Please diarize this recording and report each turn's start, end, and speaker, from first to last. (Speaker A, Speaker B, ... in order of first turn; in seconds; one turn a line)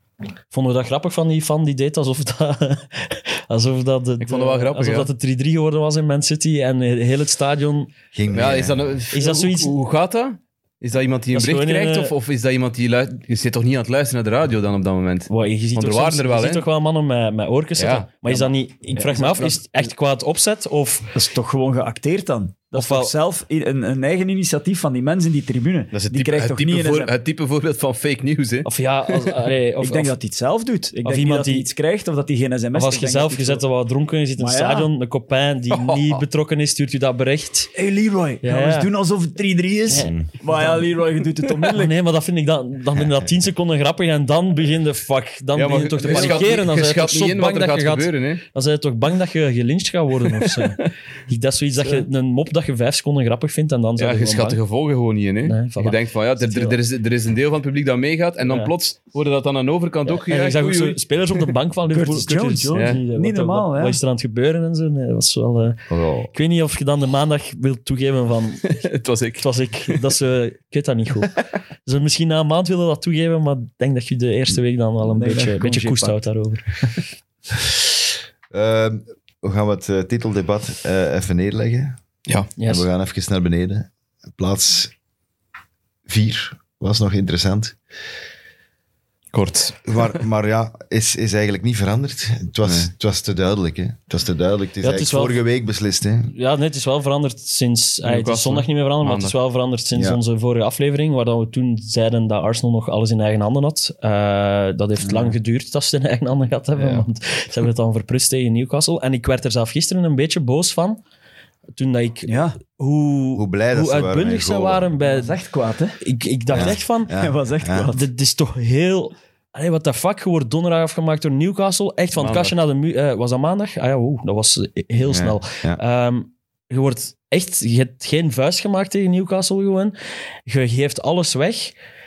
Speaker A: 0.5-7.9
Speaker B: 4.2-5.1
Speaker C: 8.1-8.8
Speaker B: 8.3-16.6
Speaker A: 9.1-9.7
Speaker A: 11.3-12.1
Speaker A: 15.3-21.1
Speaker B: 17.8-18.2
Speaker D: 18.3-19.9
Speaker D: 21.1-27.1
Speaker A: 22.7-23.1
Speaker B: 25.9-29.4
Speaker A: 28.6-30.1
Speaker D: 29.8-33.6
Speaker A: 31.0-31.7
Speaker A: 32.7-37.7
Speaker D: 34.4-34.9
Speaker B: 35.7-36.2
Speaker D: 37.7-41.9
Speaker A: 38.4-38.9
Speaker A: 39.9-40.9
Speaker C: 39.9-40.3
Speaker A: 41.7-54.6
Speaker B: 45.5-48.4
Speaker D: 46.1-46.4
Speaker B: 50.4-50.8
Speaker B: 54.0-61.5
Speaker A: 55.5-56.8
Speaker A: 58.5-58.7
Speaker A: 60.1-68.8
Speaker D: 61.9-64.0
Speaker B: 62.7-63.0
Speaker C: 65.9-66.3
Speaker B: 68.6-70.0
Speaker A: 69.4-76.8
Speaker D: 75.0-76.2
Speaker C: 78.5-82.0
Speaker A: 82.6-82.9
Speaker C: 82.6-84.9
Speaker C: 86.1-87.8
Speaker B: 89.3-90.2
Speaker C: 89.8-96.3
Speaker A: 94.8-95.4
Speaker A: 96.3-111.0
Speaker B: 98.0-99.3
Speaker C: 99.9-100.2
Speaker D: 105.0-105.3
Speaker B: 106.8-107.0
Speaker A: 111.8-115.3
Speaker D: 112.3-112.6
Speaker C: 113.3-114.9
Speaker D: 115.0-116.0
Speaker A: 116.0-117.1
Speaker C: 116.5-117.9
Speaker D: 116.6-118.0
Speaker A: 117.9-129.9
Speaker B: 122.2-122.5
Speaker C: 125.0-125.8
Speaker A: 130.4-131.7